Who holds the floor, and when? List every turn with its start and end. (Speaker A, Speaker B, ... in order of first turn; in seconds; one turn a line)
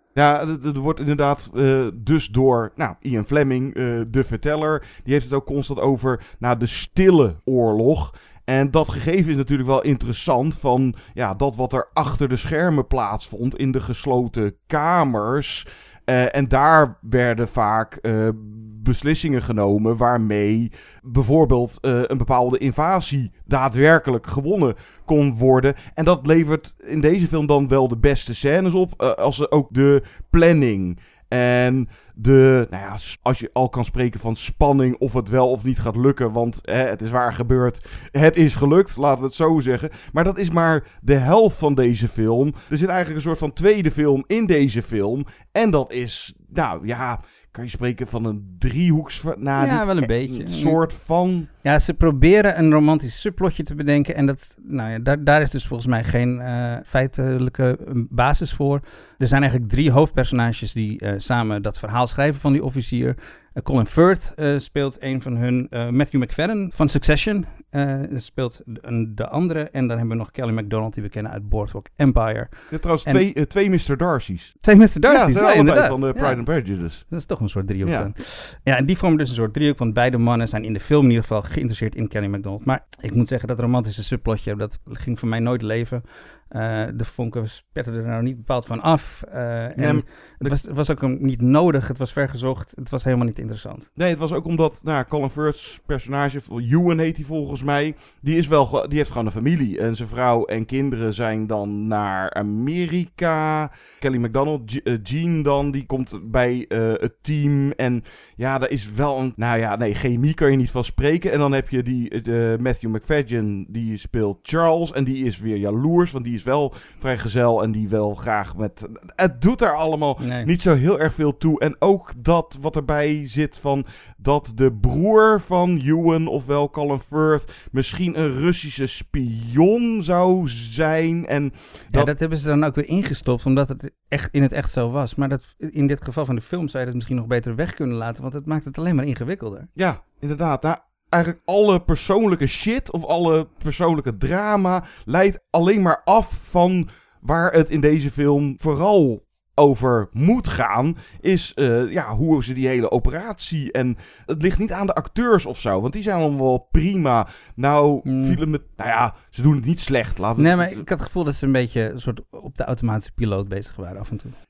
Speaker A: 0.1-51.5
Speaker B: 49.6-50.8
Speaker B: 51.6-73.2
Speaker A: 72.7-77.1
Speaker B: 74.6-93.9
Speaker A: 77.8-78.1
Speaker A: 89.8-90.5
Speaker A: 94.0-132.1
Speaker B: 120.2-120.5
Speaker B: 131.9-139.7
Speaker A: 139.8-160.8
Speaker B: 158.0-158.4
Speaker B: 160.4-164.3